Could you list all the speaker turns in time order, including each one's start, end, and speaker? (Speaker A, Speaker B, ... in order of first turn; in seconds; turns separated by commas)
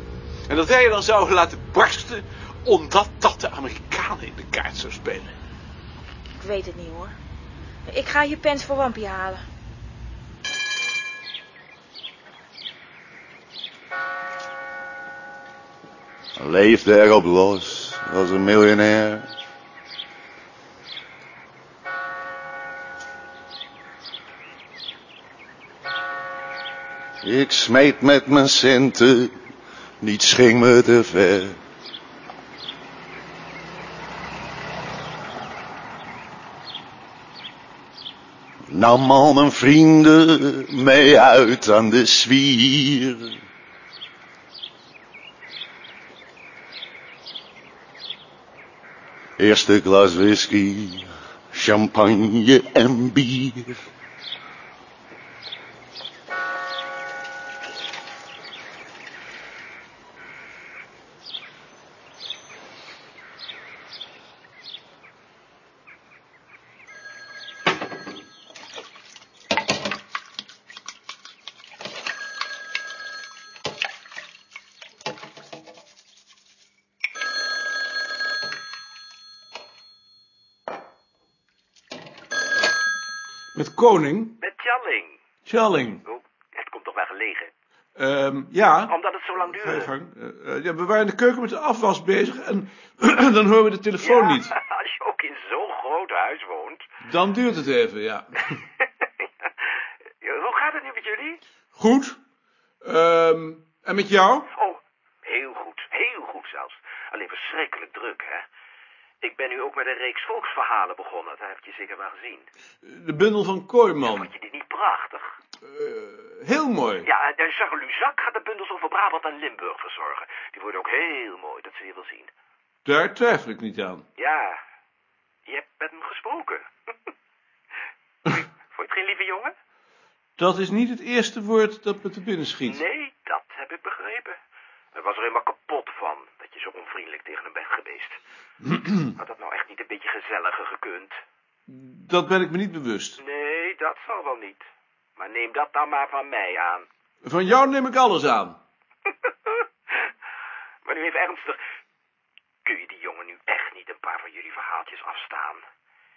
Speaker A: 0.5-5.3, Speaker B: 6.4-7.1, Speaker B: 7.8-9.4, Speaker C: 16.4-19.3, Speaker C: 27.2-29.3, Speaker C: 30.0-31.6, Speaker C: 38.7-43.3, Speaker C: 49.4-53.7, Speaker A: 83.5-84.3, Speaker D: 84.4-85.2, Speaker A: 85.5-86.0, Speaker D: 86.0-87.5, Speaker A: 88.0-94.5, Speaker D: 88.9-89.9, Speaker D: 94.0-96.9, Speaker A: 97.0-98.5, Speaker D: 100.2-101.4, Speaker A: 101.8-102.2, Speaker A: 102.8-104.5, Speaker D: 104.5-108.4, Speaker D: 109.2-112.5, Speaker A: 112.8-114.3, Speaker D: 114.0-115.3, Speaker A: 115.6-117.1, Speaker D: 117.0-122.3, Speaker A: 122.8-124.0, Speaker D: 124.2-124.6, Speaker D: 125.5-126.7, Speaker D: 128.3-129.5, Speaker A: 130.4-132.8, Speaker D: 132.6-134.4, Speaker D: 134.9-138.2, Speaker D: 139.2-141.2, Speaker A: 141.7-143.2, Speaker D: 143.2-144.7, Speaker D: 145.2-146.9, Speaker A: 147.2-148.6, Speaker D: 150.8-151.6, Speaker D: 152.6-155.6